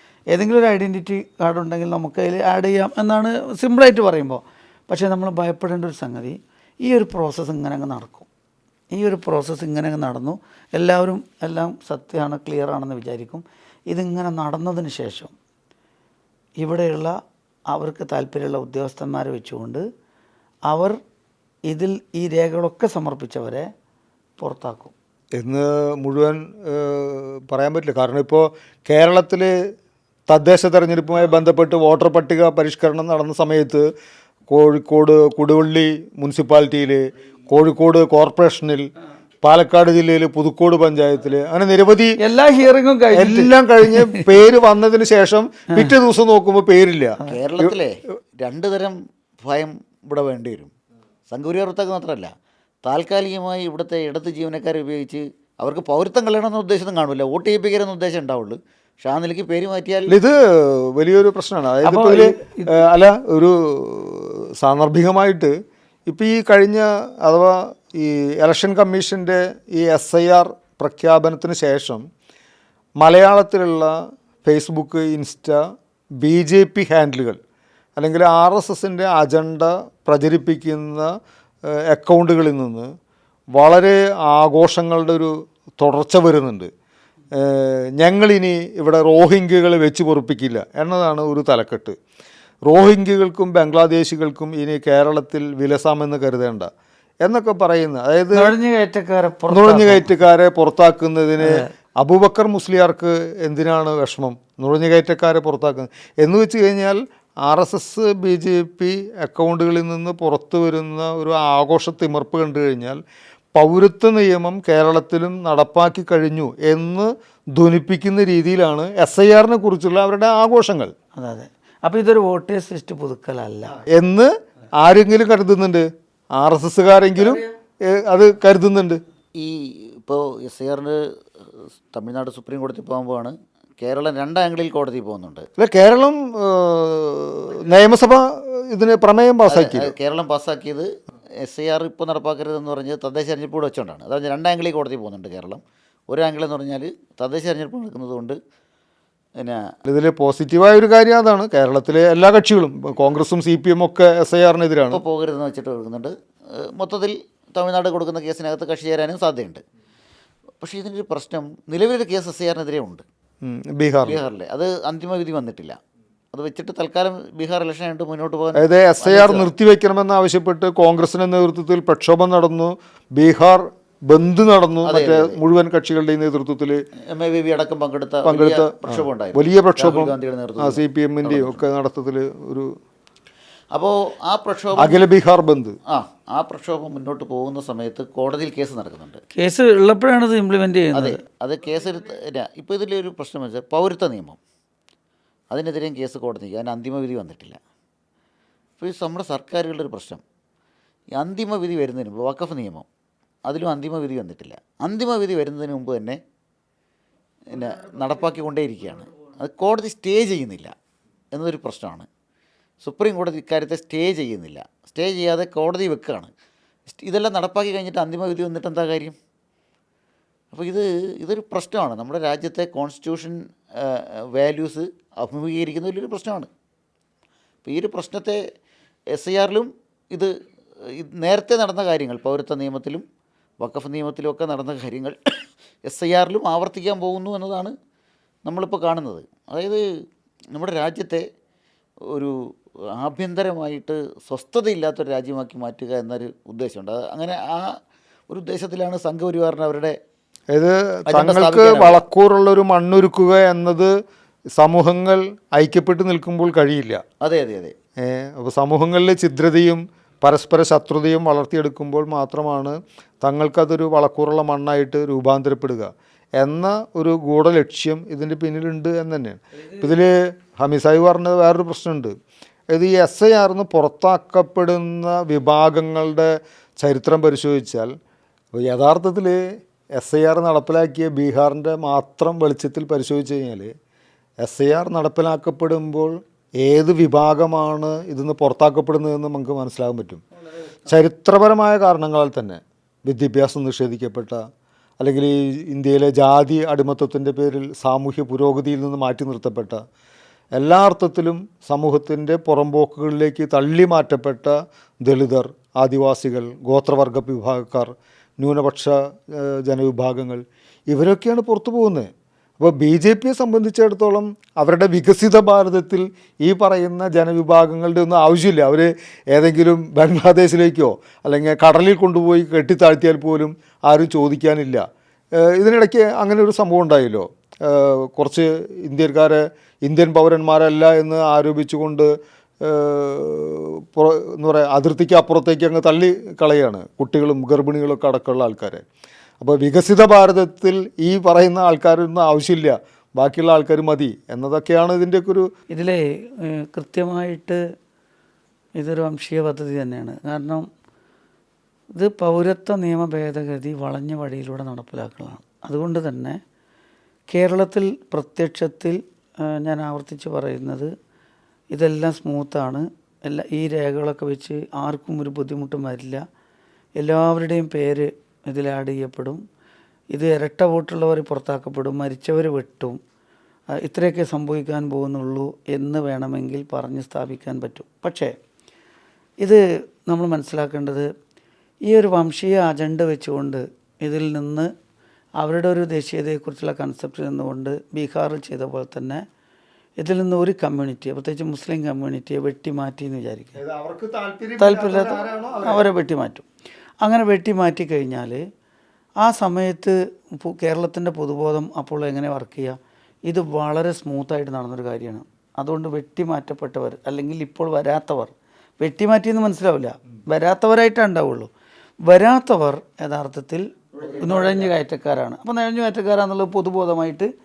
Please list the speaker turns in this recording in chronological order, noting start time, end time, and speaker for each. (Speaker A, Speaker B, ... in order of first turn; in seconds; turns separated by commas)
Speaker A: 0.3-8.3, Speaker A: 8.9-15.3, Speaker A: 16.6-17.2, Speaker A: 17.7-19.8, Speaker A: 20.7-21.0, Speaker A: 21.7-23.7, Speaker A: 24.4-24.9, Speaker B: 25.4-29.5, Speaker B: 30.3-33.9, Speaker B: 34.5-38.9, Speaker B: 39.4-42.2, Speaker A: 42.2-44.2, Speaker B: 43.1-47.7, Speaker C: 47.3-50.7, Speaker C: 51.3-52.3, Speaker C: 52.8-60.1, Speaker B: 60.1-65.5, Speaker A: 61.8-62.7, Speaker B: 66.1-72.0, Speaker B: 73.0-75.6, Speaker B: 76.2-77.4, Speaker B: 78.0-81.1, Speaker B: 81.7-82.9, Speaker B: 83.5-86.7, Speaker B: 87.3-92.0, Speaker B: 92.7-96.7, Speaker B: 97.2-98.5, Speaker A: 98.3-100.1, Speaker B: 99.5-113.0, Speaker A: 101.4-101.7, Speaker B: 113.5-120.9, Speaker A: 121.2-123.8, Speaker B: 123.8-129.0, Speaker C: 129.3-131.0, Speaker C: 131.6-135.5, Speaker B: 135.6-139.9, Speaker C: 139.5-148.4, Speaker C: 149.4-149.7, Speaker B: 149.8-155.0, Speaker C: 154.9-159.6, Speaker C: 160.6-163.0, Speaker B: 163.4-164.2, Speaker C: 164.0-165.8, Speaker C: 166.3-169.5, Speaker B: 168.6-176.8, Speaker C: 174.8-175.4, Speaker C: 177.1-181.6, Speaker B: 178.2-182.7, Speaker C: 183.7-185.0, Speaker B: 184.8-185.7, Speaker C: 185.9-189.2, Speaker A: 189.3-191.2, Speaker C: 190.9-194.4, Speaker C: 195.5-197.6, Speaker C: 198.8-200.2, Speaker C: 201.1-202.9, Speaker C: 203.4-206.2, Speaker C: 207.5-210.7, Speaker C: 211.3-212.1, Speaker C: 212.8-216.3, Speaker C: 216.9-219.2, Speaker C: 220.5-226.5, Speaker C: 227.6-228.4, Speaker C: 229.1-230.3, Speaker C: 231.0-233.0, Speaker C: 233.6-235.1, Speaker C: 235.8-237.7, Speaker C: 238.4-239.8, Speaker C: 240.5-241.2, Speaker C: 242.9-247.8, Speaker C: 248.3-249.9, Speaker B: 250.5-253.9, Speaker C: 251.1-252.0, Speaker B: 254.6-257.0, Speaker C: 257.2-257.7, Speaker B: 258.0-272.1, Speaker B: 272.7-277.9, Speaker B: 278.5-283.7, Speaker B: 284.4-290.2, Speaker B: 290.9-294.4, Speaker B: 295.0-299.8, Speaker B: 300.5-324.9, Speaker B: 325.4-332.1, Speaker B: 332.6-338.8, Speaker B: 339.4-345.4, Speaker A: 345.7-347.6, Speaker A: 348.8-350.7, Speaker A: 351.9-356.4, Speaker A: 357.3-360.9, Speaker A: 361.7-366.2, Speaker A: 367.0-369.4, Speaker A: 370.1-373.0, Speaker A: 373.8-378.3, Speaker A: 379.4-381.1, Speaker A: 381.9-384.7, Speaker A: 385.4-389.2, Speaker A: 390.0-393.6, Speaker B: 393.6-395.8, Speaker A: 394.6-396.4, Speaker A: 397.0-398.4, Speaker A: 399.2-411.5, Speaker A: 412.1-417.3, Speaker C: 413.9-414.7